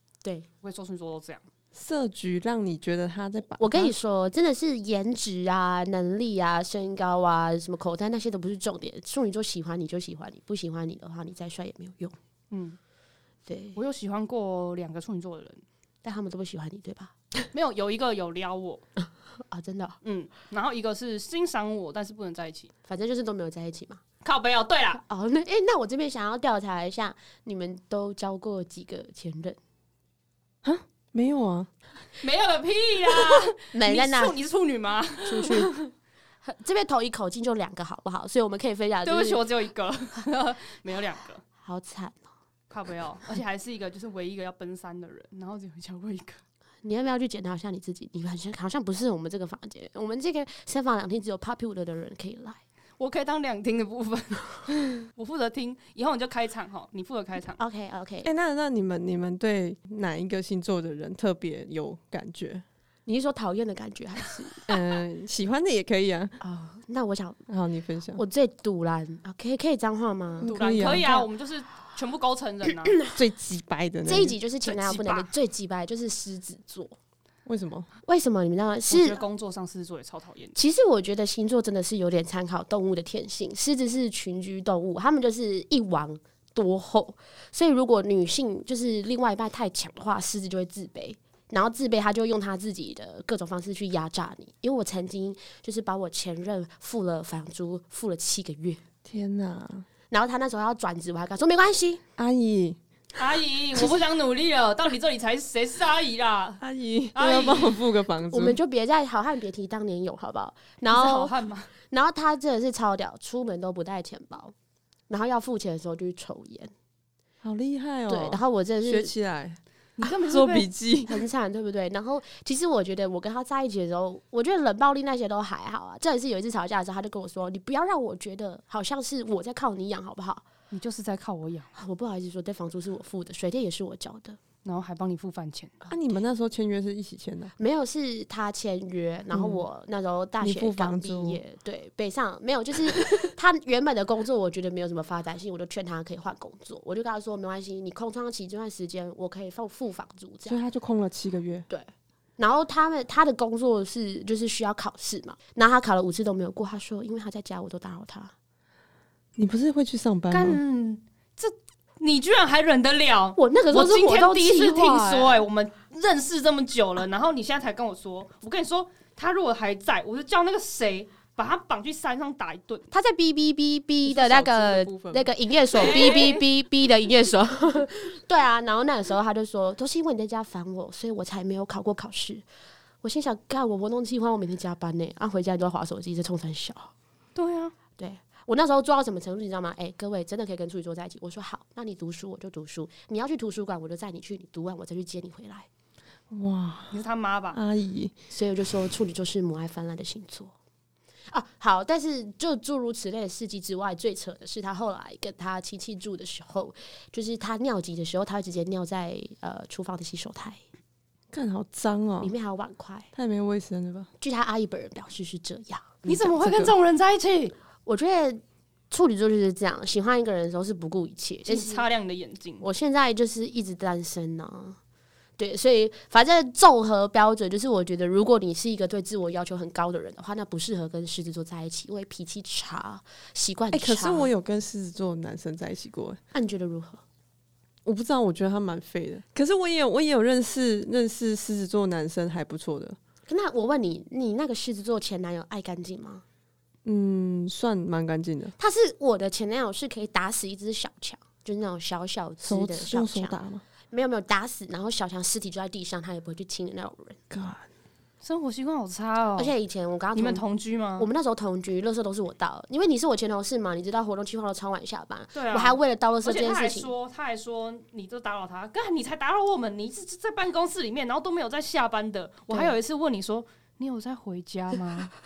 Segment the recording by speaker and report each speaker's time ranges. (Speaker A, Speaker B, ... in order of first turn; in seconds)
Speaker A: 0.6-1.4, 12.5-12.8, 13.8-15.6, 17.5-18.8, 20.0-22.7, 24.2-25.0, 32.2-35.6, 39.0-41.4, 42.7-46.4, 53.0-57.6, 70.5-73.0, 74.6-75.3, 78.9-80.5, 103.2-106.6, 107.1-107.8, 110.9-111.7, 120.0-120.7, 130.7-131.7, 134.6-135.8, 160.3-172.9, 175.7-176.4, 187.3-187.7, 196.9-197.6, 216.1-217.5, 221.4-222.7, 258.2-259.5, 260.1-261.1, 265.3-275.1
Speaker B: 1.7-3.9, 30.6-31.7, 58.2-62.6, 64.7-66.3, 67.5-68.2, 70.4-71.0, 73.1-74.3, 77.5-77.9, 99.0-99.9, 102.2-102.8, 106.6-108.6, 117.4-121.2, 135.9-137.5, 139.3-139.6, 140.4-141.4, 150.4-151.7, 159.3-160.6, 174.0-175.3, 175.8-176.2, 196.3-197.0, 197.5-198.1, 211.3-212.3, 213.1-214.1, 216.1-216.7, 233.7-236.2, 237.8-243.0, 246.8-248.5, 252.4-253.6, 257.3-257.6
Speaker C: 3.6-12.1, 13.4-13.8, 16.0-17.1, 19.4-20.0, 22.9-24.0, 25.0-29.6, 33.7-34.4, 35.2-35.8, 36.4-39.4, 41.6-42.3, 46.8-52.6, 57.6-58.3, 63.0-64.8, 66.4-67.4, 68.2-71.3, 72.7-73.2, 74.0-77.0, 78.0-79.2, 80.5-98.8, 100.1-102.0, 108.3-114.5, 115.1-116.7, 118.1-119.1, 121.1-130.4, 131.8-134.4, 137.6-150.6, 151.7-158.3, 163.4-165.4, 172.9-182.4, 183.0-186.9, 188.0-195.7, 198.3-200.5, 201.3-210.6, 212.2-213.1, 214.2-216.0, 217.8-221.8, 222.6-224.8, 225.4-234.3, 236.3-237.0, 243.3-246.2, 248.6-253.3, 253.9-257.2, 259.4-260.4, 261.0-266.9